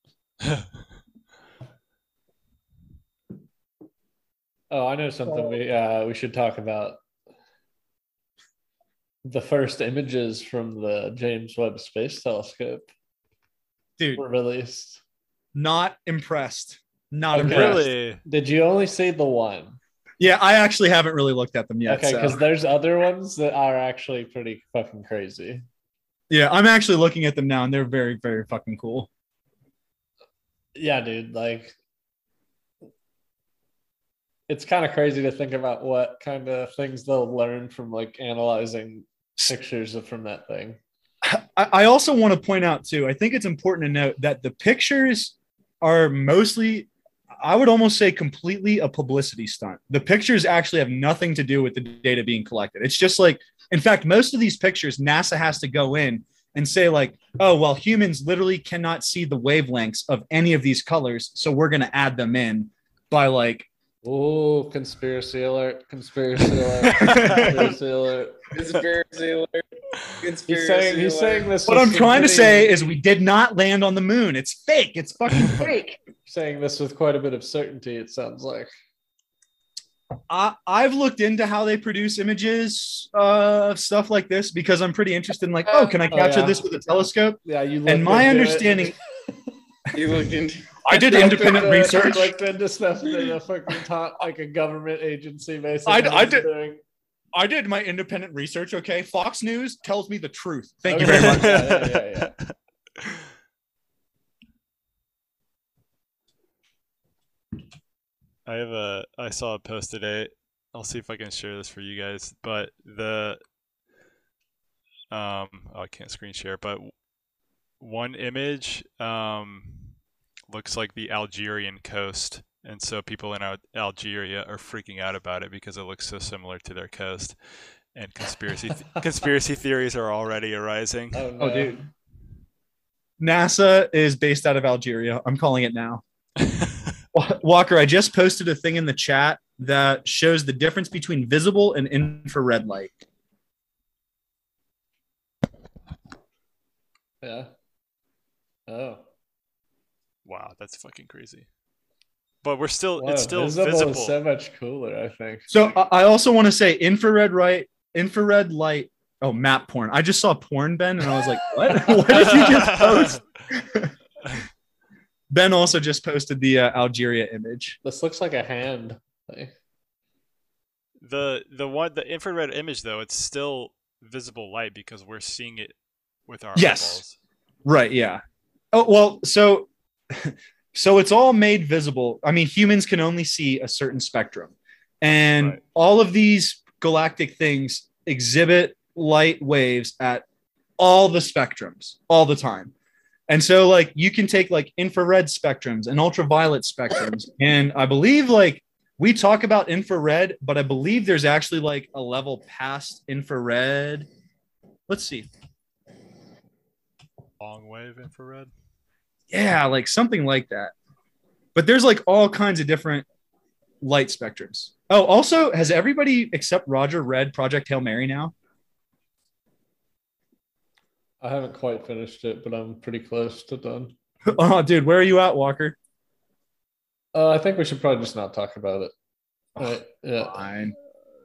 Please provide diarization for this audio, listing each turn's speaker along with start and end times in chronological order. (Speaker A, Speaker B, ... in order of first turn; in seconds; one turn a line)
Speaker A: 4.7-7.0
Speaker A: 9.2-12.9
Speaker B: 14.0-14.2
Speaker A: 14.2-15.0
Speaker B: 15.5-17.9
Speaker A: 17.3-19.8
Speaker C: 17.4-18.2
Speaker B: 20.2-22.4
Speaker A: 21.9-25.6
Speaker B: 26.3-29.1
Speaker A: 30.8-31.8
Speaker A: 34.5-40.8
Speaker B: 41.2-63.7
Speaker A: 64.0-68.4
Speaker B: 67.0-67.7
Speaker C: 67.0-67.5
Speaker D: 68.5-69.7
Speaker D: 70.2-71.6
Speaker A: 70.5-72.9
Speaker B: 71.7-76.0
Speaker A: 76.3-78.7
Speaker B: 80.3-88.9
Speaker D: 85.7-86.0
Speaker A: 86.1-86.6
Speaker A: 87.4-89.4
Speaker D: 89.9-90.8
Speaker B: 90.8-92.3
Speaker A: 90.9-96.8
Speaker B: 95.9-96.5
Speaker B: 97.3-101.7
Speaker A: 100.9-102.3
Speaker C: 101.0-103.2
Speaker C: 108.5-113.4
Speaker C: 115.1-116.9
Speaker C: 117.8-120.0
Speaker C: 120.5-127.4
Speaker C: 127.9-131.2
Speaker A: 131.1-131.8
Speaker B: 131.4-131.8
Speaker B: 133.2-136.0
Speaker C: 136.4-136.9
Speaker B: 137.1-142.9
Speaker A: 147.2-147.5
Speaker A: 148.7-149.0
Speaker C: 150.2-151.5
Speaker C: 152.4-154.2
Speaker A: 153.0-155.5
Speaker B: 155.5-163.9
Speaker C: 161.9-163.2
Speaker B: 165.3-167.8
Speaker A: 167.8-169.5
Speaker C: 171.0-175.8
Speaker C: 176.3-177.2
Speaker B: 176.6-177.0
Speaker B: 177.7-178.2
Speaker B: 178.7-190.2
Speaker B: 190.8-192.7
Speaker B: 193.3-204.1
Speaker B: 204.9-205.3
Speaker C: 207.4-208.5
Speaker B: 209.3-210.7
Speaker B: 211.6-213.1
Speaker B: 213.8-218.3
Speaker A: 221.2-223.9
Speaker B: 224.3-225.8
Speaker A: 227.1-228.9
Speaker B: 229.6-230.8
Speaker A: 229.6-230.4